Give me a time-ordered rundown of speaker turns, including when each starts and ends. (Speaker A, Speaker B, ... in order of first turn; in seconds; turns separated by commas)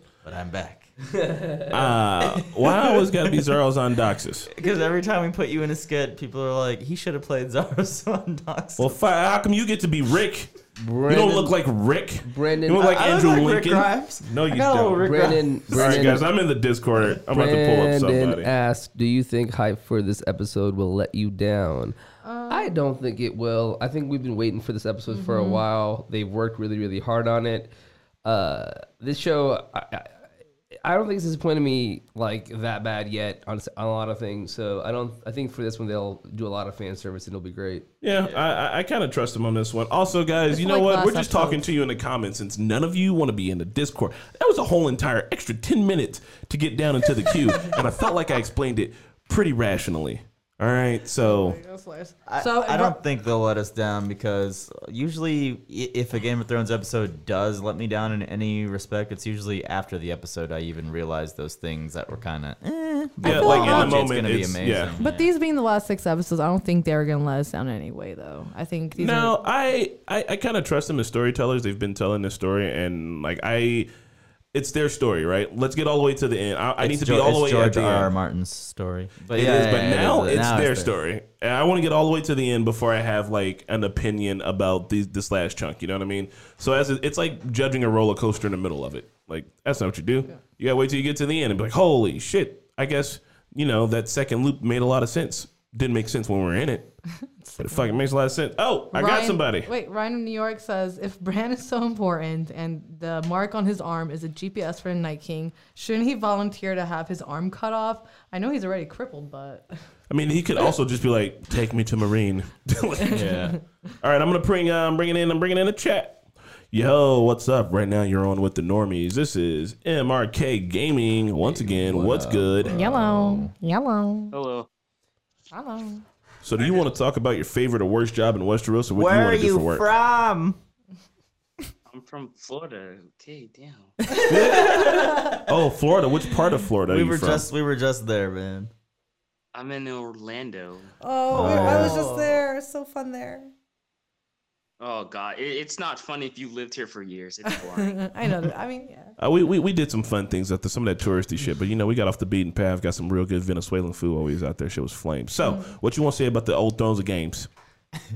Speaker A: 0.2-0.9, Speaker B: 1.2-1.7, Speaker C: 1.7-4.5, Speaker A: 2.2-3.4, Speaker A: 4.5-9.0, Speaker C: 8.8-10.5, Speaker B: 10.8-11.6, Speaker C: 11.1-18.5, Speaker B: 12.2-12.9, Speaker A: 12.8-16.2, Speaker B: 14.9-16.2, Speaker B: 17.3-21.9, Speaker D: 22.2-22.8, Speaker B: 22.5-27.7, Speaker D: 25.1-25.6, Speaker B: 28.2-30.2, Speaker B: 30.8-37.9, Speaker C: 38.0-51.6, Speaker A: 38.2-38.5, Speaker D: 40.5-41.6, Speaker D: 51.2-53.0, Speaker A: 52.3-65.3, Speaker D: 63.2-64.0, Speaker C: 63.2-65.0, Speaker D: 65.0-69.4, Speaker C: 69.0-73.9, Speaker C: 74.5-78.1, Speaker A: 76.8-80.9, Speaker C: 79.3-97.0, Speaker D: 97.4-98.0, Speaker C: 97.6-99.7, Speaker D: 98.9-109.7, Speaker C: 110.1-122.8, Speaker D: 113.0-113.5, Speaker A: 113.1-113.6, Speaker A: 121.5-123.5, Speaker D: 122.7-124.3, Speaker E: 124.3-124.7, Speaker D: 125.5-126.0, Speaker C: 126.4-129.9, Speaker A: 128.9-130.6, Speaker E: 131.9-134.2, Speaker D: 134.1-135.3, Speaker A: 134.2-135.6, Speaker C: 134.3-137.5, Speaker A: 136.8-138.7, Speaker E: 139.5-141.7, Speaker D: 141.0-143.5, Speaker A: 141.3-142.4, Speaker C: 141.4-141.9, Speaker E: 144.8-148.0, Speaker D: 147.5-149.1, Speaker C: 149.2-157.5, Speaker D: 155.4-155.7